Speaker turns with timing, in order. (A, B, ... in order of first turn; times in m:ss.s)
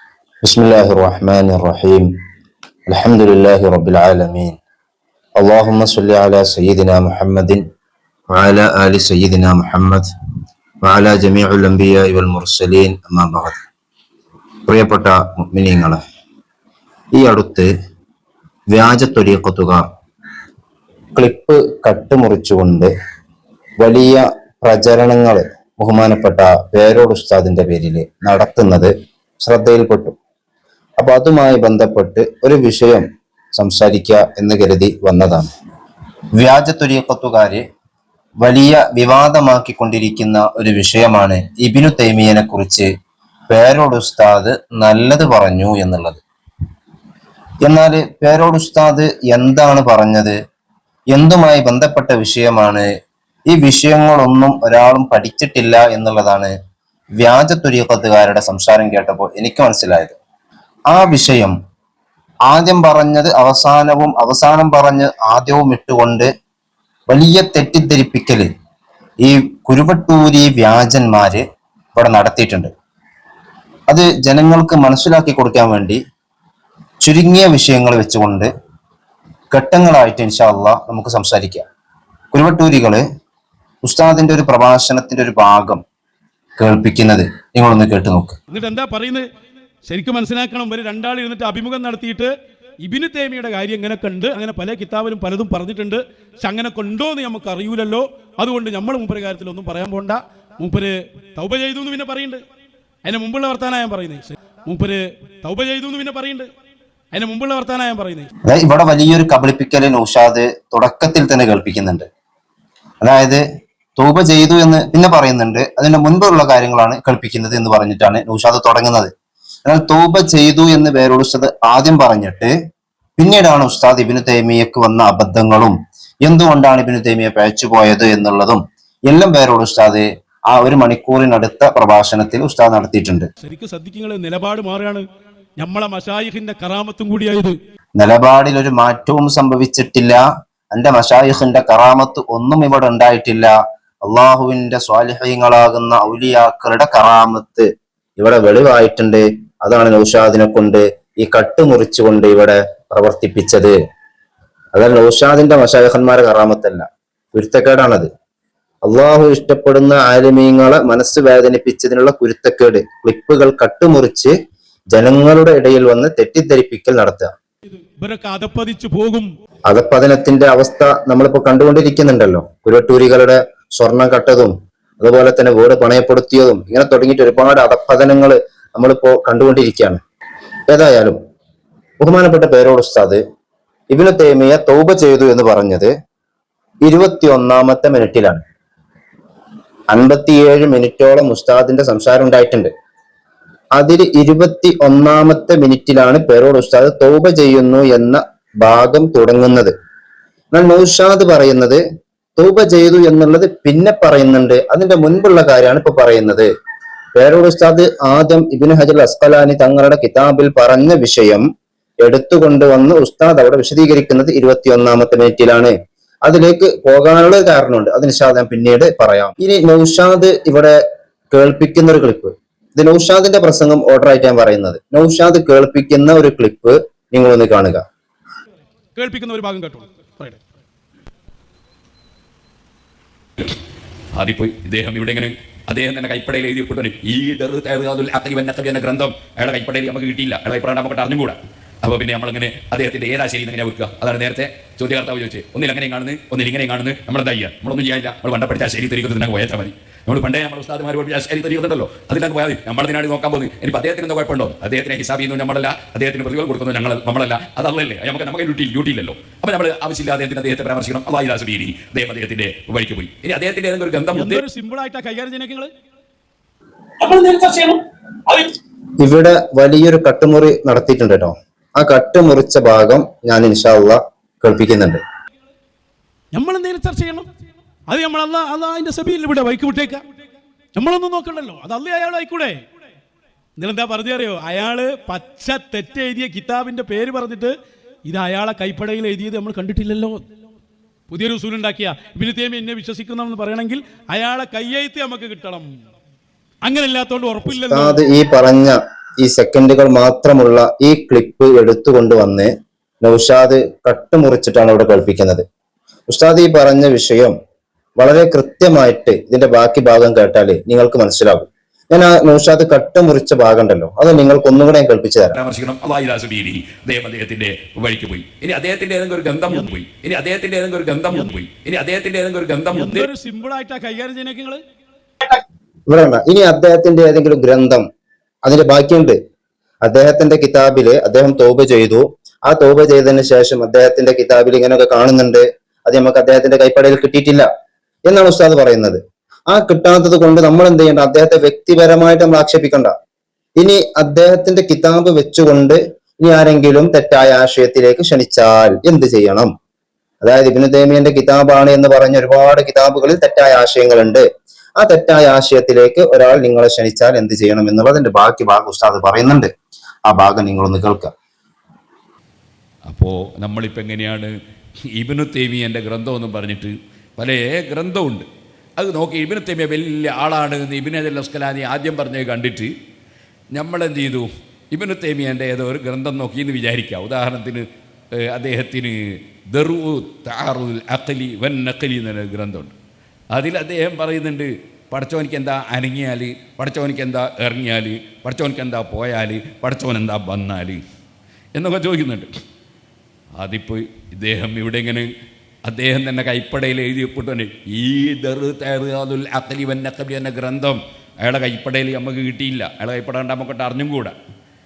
0:00.4-0:02.1 A
0:02.9-0:04.6 A
0:05.4-0:07.6 A
0:08.3-0:10.1 A
0:10.8-0:13.6 A
0:14.7-0:16.0 A
0:17.1-0:17.7 A
0:18.7-0:19.8 A
0:21.2-0:22.9 A
0:23.8-0:28.9 A
0:29.4-0:30.2 A
0:31.0-0:33.0 A
0:33.6-0:35.5 A
0:36.4-0:37.6 A
0:38.4-0:42.9 A
0:43.5-0:46.2 A
0:47.6-0:50.4 A
0:51.1-0:52.9 A
0:53.5-0:56.5 A
0:57.2-1:00.2 A
1:00.9-1:01.5 A
1:02.5-1:06.3 A
1:07.1-1:08.5 A
1:09.2-1:11.4 A
1:11.9-1:12.7 A
1:13.9-1:16.0 A
1:17.0-1:18.5 A
1:19.5-1:21.6 A
1:22.3-1:23.0 A
1:23.8-1:25.8 A
1:26.6-1:28.4 A
1:28.5-1:29.2 B
1:29.8-1:32.3 B
1:32.8-1:42.4 B
1:43.0-1:46.5 B
1:47.1-1:48.3 B
1:48.5-1:52.0 A
1:53.0-1:53.4 A
1:54.0-1:59.1 A
1:59.6-2:02.5 A
2:03.2-2:13.3 A
2:13.4-2:15.0 B
2:15.6-2:17.6 B
2:18.0-2:20.2 A
2:20.7-2:33.8 A
2:34.7-2:38.1 A
2:38.8-2:44.3 A
2:44.9-2:47.3 A
2:48.0-2:49.3 B
2:49.7-3:00.0 A
3:00.7-3:01.2 A
3:02.0-3:03.2 A
3:03.9-3:05.9 A
3:06.8-3:08.4 A
3:09.9-3:12.7 A
3:13.8-3:19.7 A
3:20.5-3:21.8 A
3:22.4-3:26.5 A
3:27.2-3:31.4 A
3:32.0-3:35.7 A
3:36.2-3:40.8 A
3:41.3-3:47.8 A
3:49.0-3:50.4 B
3:54.1-4:24.4 C
4:24.2-4:25.7 B
4:27.0-4:28.5 B
4:29.0-4:35.0 A
4:36.3-4:37.3 B
4:37.9-4:40.0 B
4:40.8-4:42.6 B
4:43.6-4:47.5 B
4:48.0-4:50.2 B
4:51.1-4:55.7 B
4:56.7-4:58.0 B
4:57.5-5:02.5 A
5:03.0-5:05.4 A
5:06.1-5:07.3 A
5:08.0-5:15.4 A
5:15.3-5:23.1 C
5:22.7-5:24.6 B
5:25.2-5:27.8 A
5:28.4-5:29.2 A
5:29.8-5:37.5 A
5:38.1-5:39.0 A
5:39.5-5:42.9 A
5:43.6-5:49.5 A
5:50.2-5:54.2 A
5:54.8-5:59.5 A
6:00.1-6:01.1 A
6:02.9-6:04.3 C
6:05.0-6:08.2 C
6:08.8-6:12.7 C
6:13.6-6:17.6 C
6:18.2-6:22.7 C
6:23.3-6:30.8 C
6:31.5-6:32.3 C
6:33.4-6:35.1 C
6:35.6-6:44.2 C